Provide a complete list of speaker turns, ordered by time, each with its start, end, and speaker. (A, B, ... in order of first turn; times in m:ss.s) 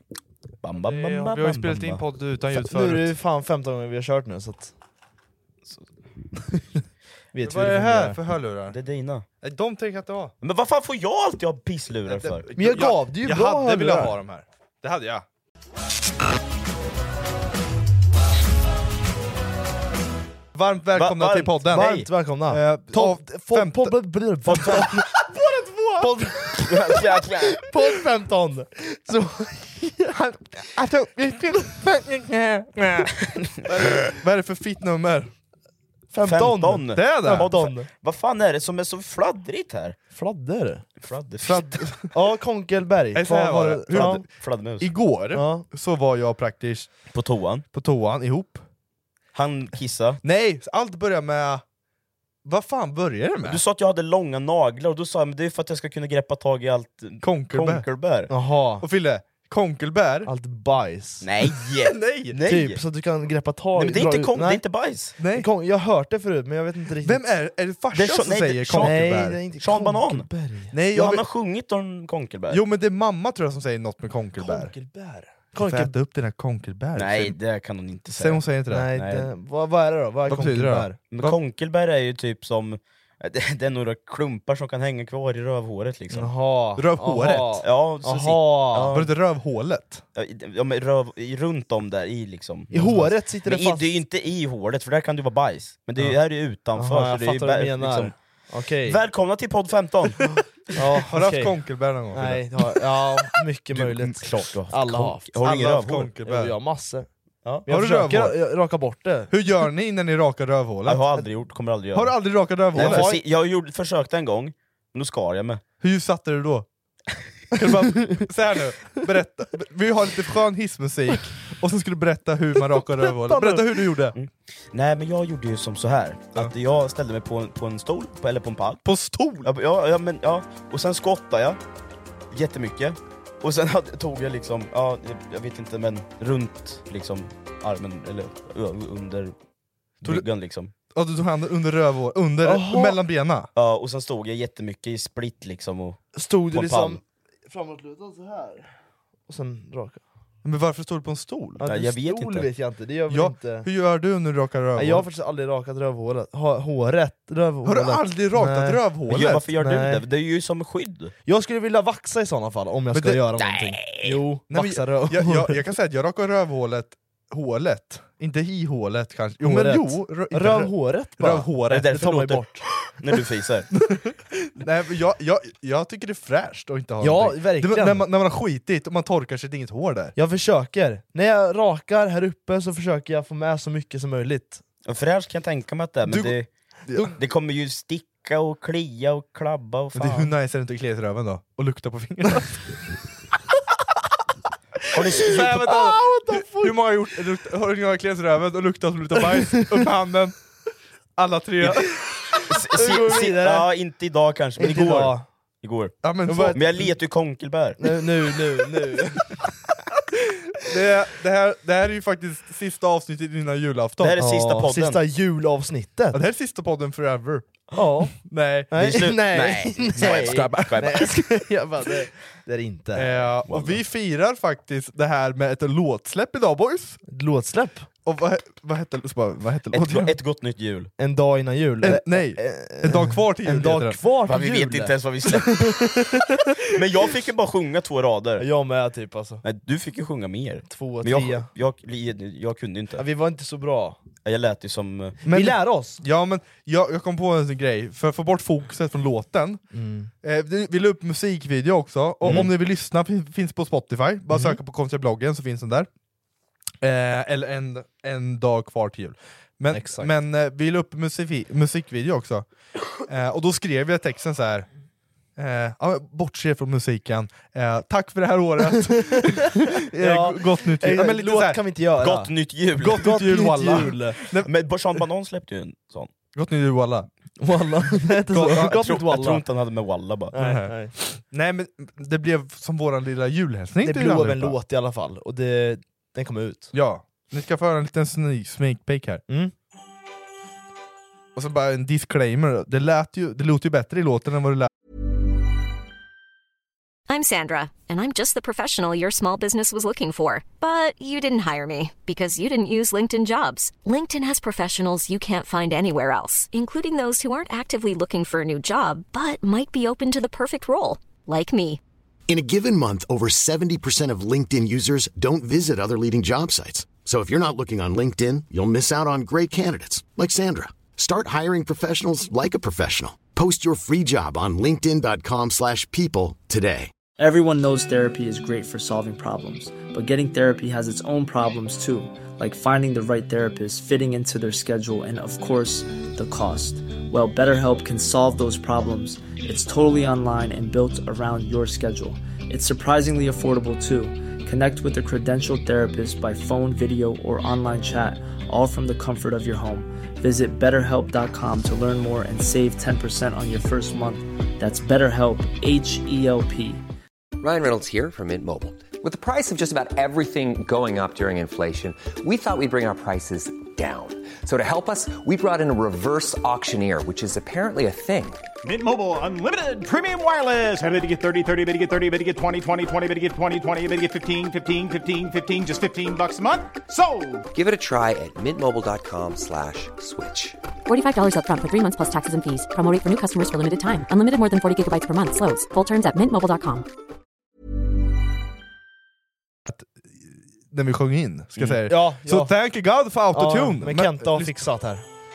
0:00.6-0:02.0 A
0:00.8-0:03.2 B
0:02.5-0:04.7 C
0:07.3-0:08.2 C
0:07.4-0:08.8 B
0:08.7-0:09.2 A
0:09.4-0:10.3 B
0:10.4-0:12.5 A
0:12.1-0:15.2 B
0:12.6-0:14.1 C
0:20.5-0:24.0 B
0:21.0-0:22.1 A
0:21.7-0:25.2 C
0:24.5-0:24.8 A
0:24.6-0:26.2 B
0:26.0-0:30.1 C
0:26.7-0:27.7 A
0:30.1-0:33.1 B
0:33.6-0:35.3 B
0:36.1-0:37.9 C
0:36.2-0:40.0 A
0:37.0-0:37.5 B
0:40.1-0:40.9 C
0:41.0-0:41.8 A
0:41.4-0:42.2 B
0:42.1-0:44.2 C
0:43.1-0:44.3 B
0:43.9-0:44.9 A
0:44.8-0:46.9 B
0:45.3-0:45.7 C
0:47.1-0:47.6 A
0:47.7-0:48.6 B
0:49.3-0:50.2 A
0:50.2-0:51.6 B
0:52.4-0:53.6 B
0:53.4-0:58.3 A
0:57.2-0:57.8 B
0:58.3-0:58.8 C
0:58.8-1:00.3 B
1:00.3-1:01.3 C
1:01.2-1:02.8 A
1:01.8-1:02.4 B
1:02.4-1:04.6 C
1:03.8-1:05.2 A
1:05.2-1:05.5 B
1:05.3-1:07.2 C
1:07.0-1:09.4 B
1:07.9-1:10.3 A
1:08.8-1:10.7 C
1:10.7-1:11.2 B
1:10.9-1:12.6 A
1:12.5-1:14.7 B
1:14.4-1:15.9 C
1:15.6-1:17.4 B
1:17.0-1:19.3 A
1:18.1-1:18.9 B
1:18.7-1:21.0 C
1:20.3-1:21.4 B
1:21.1-1:26.3 A
1:26.1-1:29.0 C
1:26.8-1:27.6 B
1:27.6-1:29.1 A
1:28.9-1:30.0 B
1:30.2-1:38.1 A
1:32.7-1:33.8 C
1:36.8-1:39.0 C
1:38.8-1:40.2 A
1:40.2-1:41.5 C
1:41.0-1:42.5 B
1:42.1-1:47.1 C
1:43.7-1:46.1 A
1:45.4-1:46.6 B
1:47.7-1:49.3 C
1:47.7-1:48.4 B
1:49.3-1:51.1 B
1:50.9-1:52.1 A
1:51.9-1:53.1 B
1:52.7-1:53.2 C
1:52.7-1:55.6 A
1:55.8-1:56.7 B
1:57.5-2:04.2 B
2:03.1-2:03.7 C
2:04.2-2:08.8 A
2:08.8-2:09.5 B
2:09.4-2:11.6 A
2:12.3-2:19.3 A
2:20.0-2:20.7 A
2:20.9-2:23.5 B
2:22.4-2:23.0 C
2:23.6-2:26.0 A
2:26.2-2:28.7 C
2:26.5-2:27.0 A
2:29.3-2:30.0 C
2:30.4-2:31.6 B
2:31.6-2:33.7 C
2:31.6-2:32.5 A
2:33.1-2:35.1 B
2:34.8-2:38.8 C
2:37.6-2:39.4 B
2:39.1-2:41.1 A
2:39.6-2:40.0 C
2:41.3-2:45.6 C
2:42.9-2:43.2 B
2:43.4-2:44.2 A
2:44.5-2:51.9 B
2:49.4-2:52.6 C
2:51.7-2:53.7 A
2:54.5-3:00.2 B
2:57.0-2:58.0 C
3:00.2-3:04.6 C
3:04.9-3:06.5 A
3:06.1-3:06.3 B
3:07.2-3:10.3 A
3:10.0-3:12.6 B
3:14.9-3:15.8 A
3:15.2-3:20.4 B
3:15.3-3:16.8 C
3:21.2-3:21.9 B
3:22.5-3:27.8 A
3:22.8-3:23.7 C
3:24.6-3:25.2 C
3:26.0-3:26.9 B
3:26.3-3:26.6 C
3:27.8-3:29.4 C
3:30.7-3:34.2 B
3:34.0-3:35.0 A
3:34.2-3:36.2 C
3:36.1-3:37.5 B
3:37.7-3:38.1 C
3:38.2-3:38.7 B
3:38.7-3:43.3 C
3:38.8-3:41.4 A
3:40.0-3:41.1 B
3:42.9-3:47.0 B
3:43.5-3:43.8 A
3:47.1-3:47.9 C
3:48.0-3:50.1 B
3:49.7-3:50.9 A
3:51.0-3:56.6 C
3:51.8-3:54.0 B
3:54.2-3:55.8 A
3:56.7-3:58.5 A
3:58.4-3:59.4 C
3:59.4-4:03.1 A
4:00.7-4:01.5 C
4:03.0-4:04.0 C
4:04.2-4:05.2 A
4:05.2-4:06.0 C
4:05.3-4:09.6 B
4:09.7-4:10.1 C
4:10.2-4:15.9 B
4:12.2-4:12.5 C
4:16.8-4:22.5 B
4:19.7-4:20.1 C
4:23.1-4:24.7 B
4:25.4-4:31.6 B
4:30.0-4:32.3 C
4:32.0-4:33.1 A
4:32.8-4:34.5 B
4:32.9-4:34.2 C
4:34.3-4:36.1 A
4:36.3-4:37.1 B
4:37.4-4:39.4 C
4:38.3-4:39.0 B
4:38.7-4:40.4 A
4:40.3-4:40.9 C
4:40.4-4:44.6 B
4:43.8-4:46.7 C
4:46.7-4:49.2 B
4:51.4-4:54.7 B
4:57.1-5:11.8 D
5:12.3-5:26.9 E
5:27.2-5:56.8 F
5:57.4-6:08.4 G
6:08.6-6:17.4 H
6:17.5-6:20.6 G
6:20.9-6:26.9 I
6:29.7-6:34.7 B
6:31.6-6:32.5 C
6:33.3-6:35.0 C